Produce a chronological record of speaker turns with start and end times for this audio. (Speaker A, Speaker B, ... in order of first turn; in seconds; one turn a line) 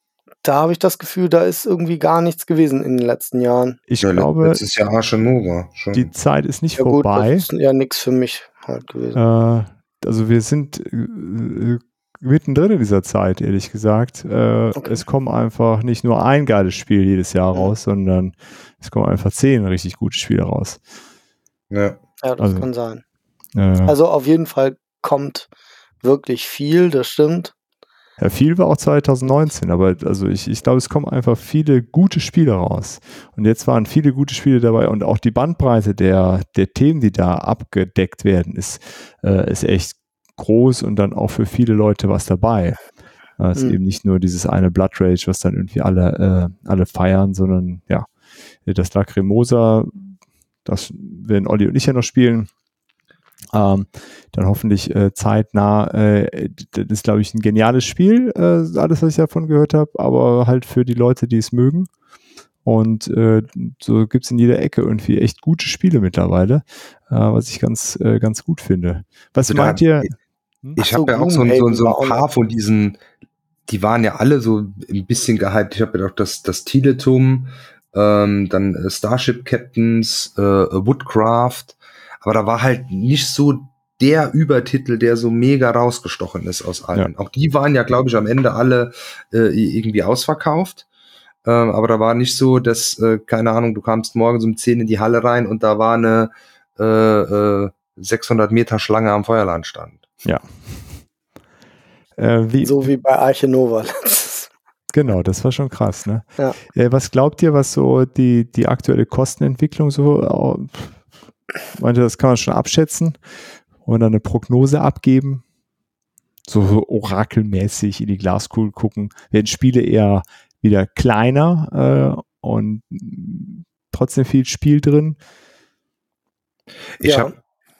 Speaker A: 0.4-3.8
Speaker B: 3.9-4.6
Speaker C: 4.0-6.1
Speaker B: 5.9-7.5
Speaker A: 6.8-9.2
Speaker B: 9.1-20.8
Speaker A: 14.7-15.0
Speaker C: 21.7-22.0
Speaker A: 22.2-23.0
Speaker B: 22.4-22.7
Speaker B: 23.5-23.9
Speaker A: 23.9-25.5
Speaker A: 26.0-27.5
Speaker B: 28.2-42.8
Speaker B: 43.4-48.1
Speaker B: 48.6-52.5
Speaker B: 53.5-61.9
Speaker B: 62.6-70.1
Speaker C: 69.5-69.9
Speaker A: 70.8-72.2
Speaker C: 70.8-73.0
Speaker C: 73.7-90.8
Speaker C: 91.4-100.2
Speaker B: 100.2-101.0
Speaker B: 102.2-102.9
Speaker A: 102.6-104.5
Speaker B: 104.9-111.0
Speaker B: 111.7-113.2
Speaker B: 113.8-115.4
Speaker B: 116.5-125.2
Speaker C: 127.0-127.3
Speaker A: 127.0-127.3